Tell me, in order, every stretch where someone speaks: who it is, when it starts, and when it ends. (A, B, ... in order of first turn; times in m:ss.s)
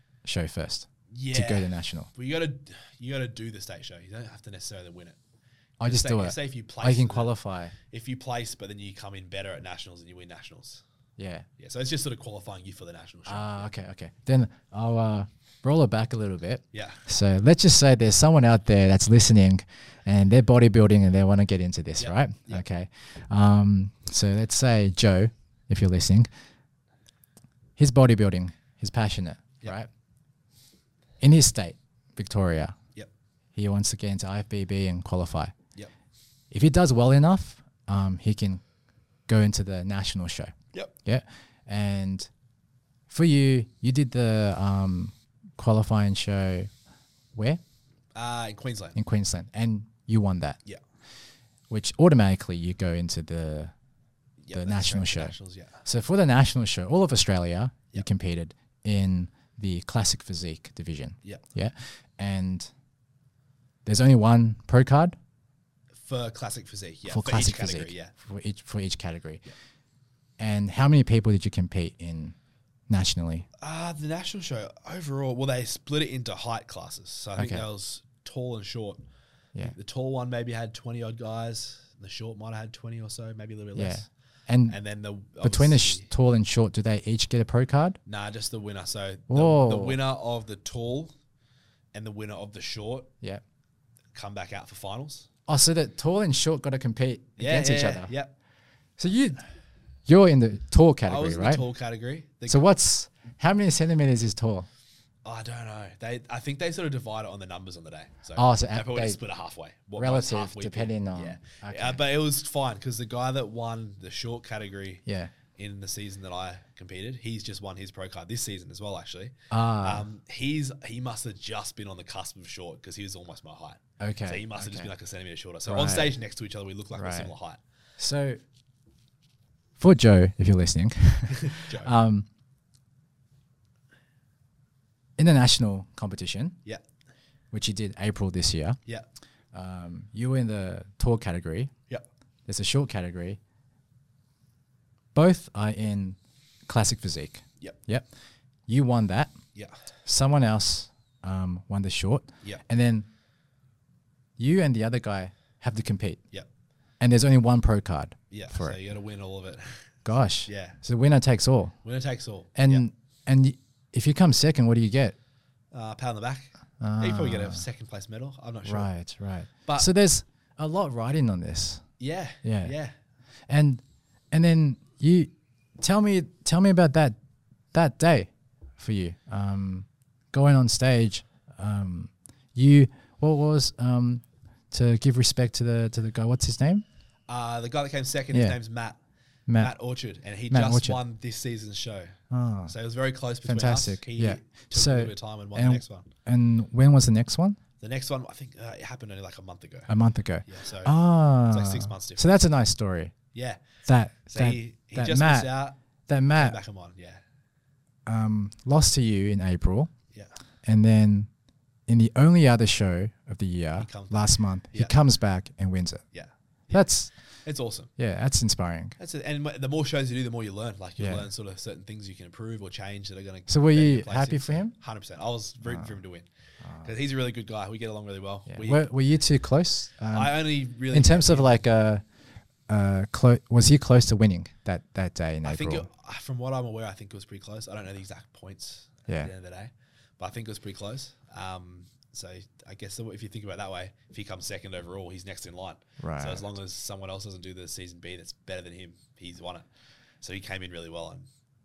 0:00.2-0:02.1 A
0:01.1-0:05.2 B
0:05.8-0:07.7 A
0:05.8-0:10.8 B
0:11.2-0:11.5 A
0:11.6-0:13.7 B
0:13.2-0:26.3 A
0:16.7-0:17.0 B
0:22.0-0:22.6 B
0:27.8-0:29.9 A
0:31.2-0:32.8 A
0:33.5-0:35.5 A
0:36.5-0:38.6 A
0:39.3-0:42.3 A
0:43.1-0:46.7 A
0:47.3-0:47.6 A
0:48.1-0:49.0 B
0:49.0-0:50.6 A
0:51.7-0:53.7 A
0:54.4-0:55.8 B
0:54.5-1:02.7 A
1:03.8-1:05.2 A
1:06.0-1:08.1 B
1:07.1-1:09.4 A
1:10.4-1:12.4 A
1:12.9-1:13.5 A
1:13.6-1:19.0 B
1:17.3-1:17.6 A
1:19.6-1:24.1 B
1:23.7-1:24.8 A
1:24.7-1:26.1 B
1:25.4-1:28.0 A
1:28.0-1:31.1 B
1:29.3-1:30.0 A
1:31.9-1:33.1 B
1:34.1-1:35.3 B
1:35.5-1:38.1 A
1:37.4-1:38.3 B
1:39.0-1:39.4 A
1:40.0-1:41.6 A
1:41.0-1:42.7 B
1:42.5-1:44.7 A
1:45.2-2:07.6 B
1:48.4-1:49.2 A
1:50.0-1:52.0 A
1:55.0-1:55.3 A
1:59.5-2:00.0 A
2:04.0-2:04.9 A
2:05.7-2:06.1 A
2:06.9-2:07.3 A
2:08.0-2:08.4 A
2:09.8-2:12.3 A
2:11.3-2:11.9 B
2:15.2-2:16.6 A
2:17.5-2:18.8 A
2:19.5-2:21.7 A
2:22.5-2:23.4 A
2:25.1-2:28.1 A
2:28.7-2:29.4 A
2:29.5-2:29.8 B
2:30.0-2:33.1 A
2:34.4-2:36.2 A
2:37.0-2:38.8 A
2:38.3-2:40.8 B
2:40.0-2:41.8 A
2:41.8-2:42.8 B
2:42.5-2:45.2 A
2:45.7-2:48.9 B
2:46.8-2:47.6 A
2:48.6-2:52.8 A
2:52.0-2:52.9 B
2:53.5-2:57.2 A
2:57.7-3:06.8 A
3:07.3-3:09.0 B
3:08.3-3:08.6 A
3:09.5-3:09.7 A
3:09.6-3:16.1 B
3:10.5-3:11.0 A
3:12.3-3:12.7 A
3:13.4-3:17.6 A
3:17.8-3:19.9 B
3:19.9-3:23.1 A
3:20.4-3:21.0 B
3:21.5-3:22.3 B
3:23.3-3:23.6 B
3:23.8-3:25.5 A
3:24.3-3:25.8 B
3:26.1-3:26.6 A
3:26.4-3:27.2 B
3:28.0-3:29.9 A
3:30.1-3:30.4 B
3:30.6-3:31.3 A
3:31.9-3:36.1 A
3:33.8-3:34.9 B
3:36.1-3:37.9 B
3:36.7-3:37.2 A
3:38.0-3:39.0 A
3:39.0-3:48.8 B
3:41.0-3:41.3 A
3:43.5-3:44.7 A
3:46.6-3:46.9 A
3:48.5-3:52.0 A
3:50.1-3:51.5 B
3:52.7-3:55.9 A
3:55.4-4:09.6 B
4:06.0-4:06.4 A
4:10.2-4:11.2 B